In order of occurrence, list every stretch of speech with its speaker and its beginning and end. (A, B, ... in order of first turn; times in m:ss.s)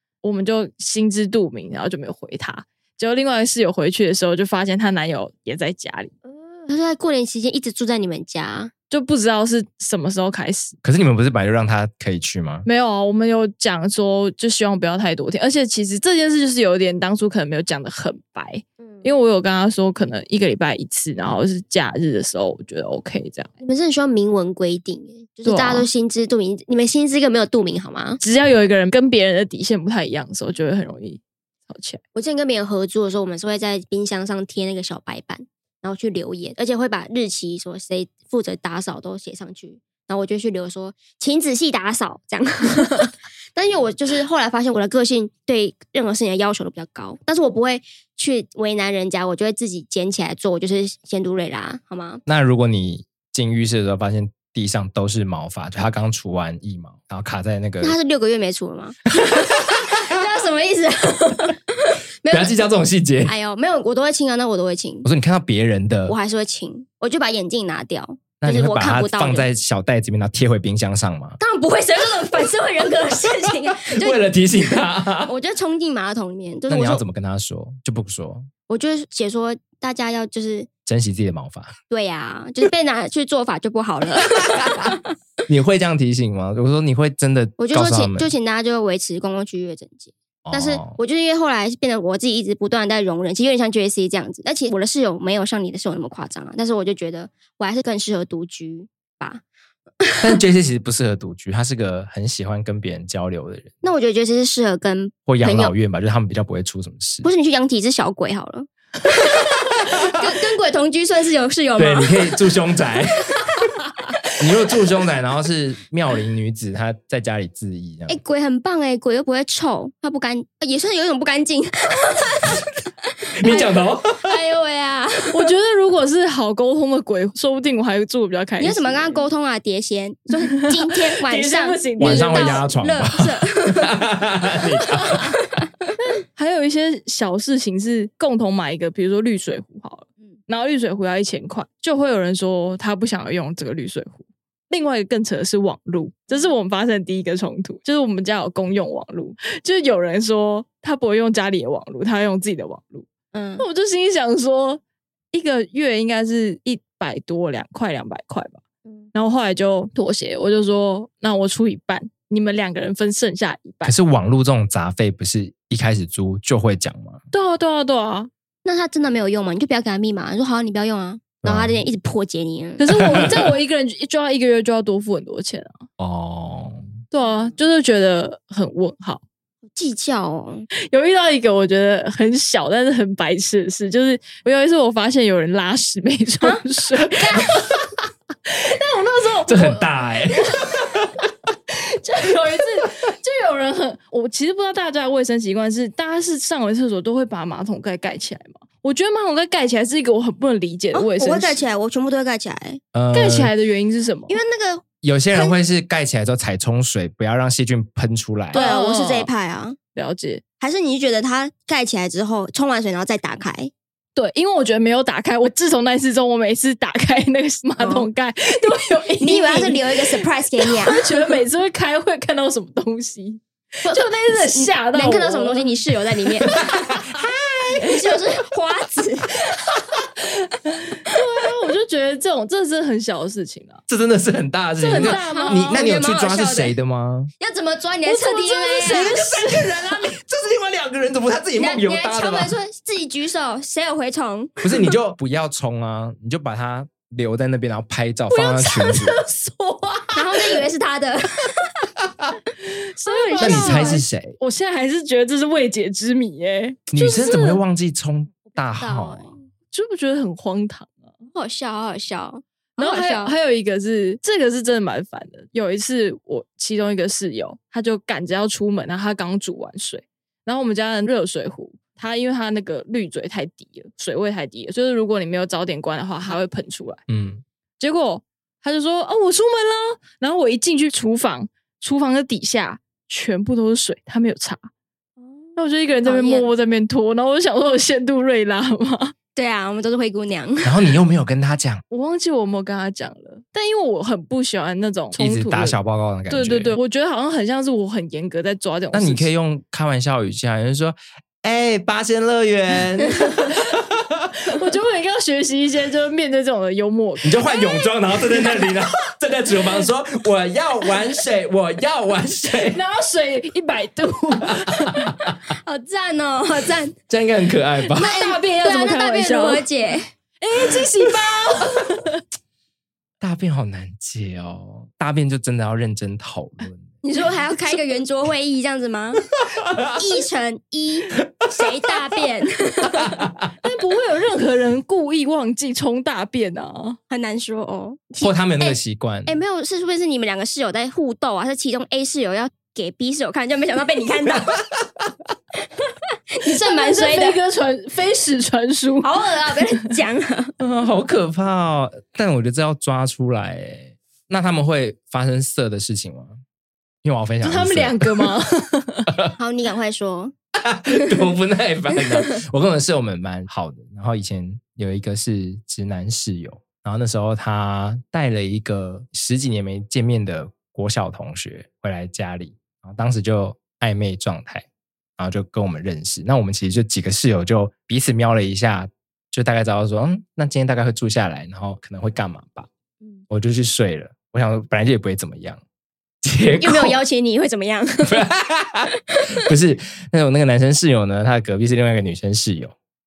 0:00.2-0:06.1 A
0:06.3-0:08.7 B
0:08.9-0:10.8 A
0:10.8-0:12.7 C
0:12.6-0:23.6 A
0:18.8-0:19.1 B
0:23.6-0:28.2 B
0:25.4-0:25.9 A
0:28.2-0:32.0 A
0:32.2-0:52.2 B
0:52.3-0:58.0 C
0:57.8-1:02.6 B
1:02.3-1:03.3 C
1:03.2-1:05.1 B
1:05.0-1:06.2 C
1:06.1-1:09.5 B
1:08.4-1:11.4 C
1:11.4-1:14.2 B
1:13.8-1:15.3 C
1:15.2-1:17.1 B
1:16.7-1:18.5 C
1:18.7-1:20.7 B
1:20.9-1:21.7 C
1:21.9-1:25.0 B
1:25.5-1:28.3 C
1:27.6-1:39.4 B
1:30.5-1:31.0 C
1:40.2-1:43.7 C
1:43.8-1:45.7 B
1:45.3-1:47.3 C
1:47.2-1:49.4 B
1:50.1-1:52.3 B
1:51.8-1:53.4 C
1:54.4-1:58.2 C
1:58.1-2:02.7 B
2:03.4-2:04.4 C
2:03.4-2:05.5 B
2:05.3-2:09.2 A
2:08.6-2:14.0 B
2:11.3-2:12.7 A
2:12.0-2:15.3 C
2:15.1-2:15.7 B
2:16.0-2:33.1 A
2:33.3-2:33.7 B
2:33.6-2:34.8 A
2:35.3-2:38.6 A
2:38.8-2:39.1 B
2:39.1-2:44.0 A
2:43.8-2:47.2 C
2:47.3-2:48.3 A
2:48.6-2:53.3 B
2:51.4-2:51.8 C
2:52.8-2:55.8 A
2:52.9-2:53.4 C
2:56.0-2:56.9 C
2:57.1-2:59.2 A
2:59.7-3:00.7 B
3:00.9-3:07.8 A
3:07.2-3:07.5 B
3:08.5-3:10.9 A
3:09.5-3:11.2 C
3:11.7-3:21.6 A
3:20.9-3:22.8 B
3:22.9-3:23.5 C
3:23.1-3:24.4 A
3:24.3-3:25.6 B
3:25.0-3:28.6 C
3:28.5-3:29.3 A
3:28.5-3:29.8 B
3:30.0-3:30.4 A
3:30.6-3:33.7 B
3:34.2-3:45.8 A
3:37.8-3:38.1 B
3:39.2-3:41.2 B
3:43.8-3:46.6 B
3:46.7-3:47.2 C
3:47.2-3:49.5 B
3:47.8-3:48.2 A
3:51.0-3:53.8 A
3:53.9-3:57.3 C
3:54.8-3:55.9 A
3:54.9-3:56.8 B
3:57.4-3:59.4 B
3:58.1-4:00.0 A
3:58.9-4:02.6 C
4:01.6-4:04.6 B
4:04.6-4:09.2 C
4:08.3-4:10.6 A
4:10.2-4:11.7 B
4:13.0-4:17.6 A
4:13.1-4:14.0 B
4:13.4-4:14.4 C
4:16.9-4:19.3 C
4:18.8-4:19.5 B
4:19.7-4:21.1 A
4:21.3-4:23.3 B
4:22.8-4:37.0 A
4:37.1-4:37.4 C
4:37.8-4:44.7 A
4:45.2-4:46.5 B
4:45.6-4:49.1 A
4:49.4-4:50.9 B
4:50.6-4:51.8 C
4:51.9-4:59.3 A
4:55.1-4:56.8 C
4:58.9-5:04.1 C
5:04.5-5:07.4 A
5:07.2-5:12.8 C
5:07.5-5:08.0 B
5:12.5-5:15.0 A
5:15.6-5:17.0 B
5:17.1-5:18.1 C
5:17.9-5:19.7 A
5:18.0-5:20.1 B
5:20.4-5:22.2 A
5:23.2-5:26.9 C
5:27.0-5:29.2 B
5:29.9-5:33.1 B
5:33.6-5:37.0 A
5:37.1-5:44.5 B
5:38.2-5:39.4 C
5:46.4-5:47.4 B
5:46.5-5:49.2 A
5:49.0-5:50.5 B
5:50.6-5:56.4 C
5:57.0-5:58.3 C
5:57.4-5:59.1 A
5:59.4-6:00.3 B
6:00.6-6:14.7 C
6:15.2-6:22.7 C
6:23.3-6:25.6 C
6:26.2-6:27.0 C
6:26.6-6:28.3 B
6:28.0-6:28.9 C
6:29.4-6:32.7 C